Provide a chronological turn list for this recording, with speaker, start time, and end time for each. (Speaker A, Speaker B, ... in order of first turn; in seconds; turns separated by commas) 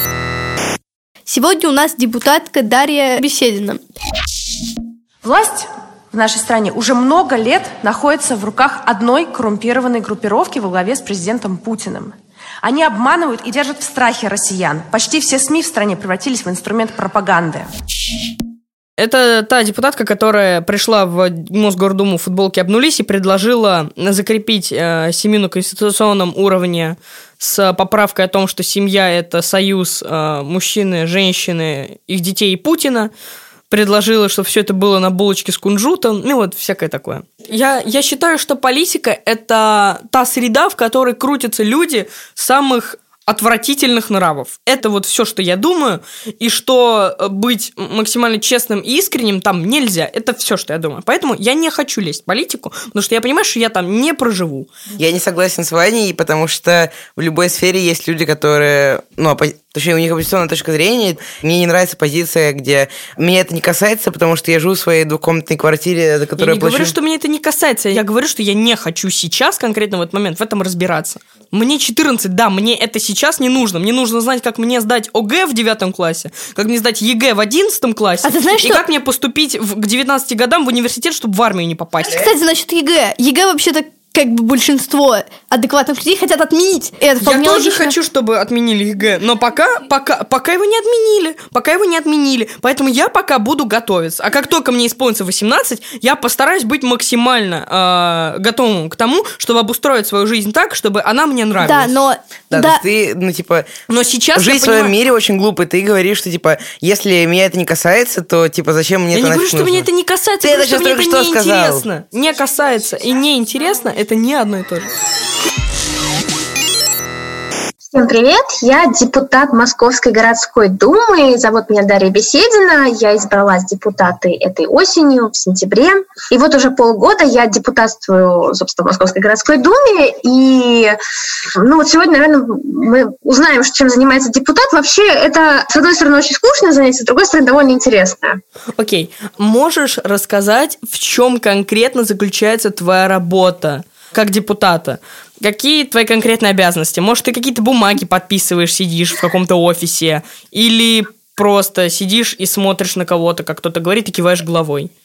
Speaker A: 1.3-3.8, Speaker B: 5.2-17.7, Speaker C: 19.0-33.1, Speaker C: 33.7-54.7, Speaker D: 55.0-66.9, Speaker C: 66.4-82.3, Speaker A: 78.2-78.8, Speaker A: 82.0-87.9, Speaker C: 87.2-101.9, Speaker A: 101.6-102.8, Speaker D: 102.5-103.7, Speaker C: 103.9-104.9, Speaker D: 104.3-109.9, Speaker C: 109.1-114.9, Speaker D: 110.4-111.8, Speaker E: 117.9-131.0, Speaker E: 131.5-138.4, Speaker C: 138.8-154.9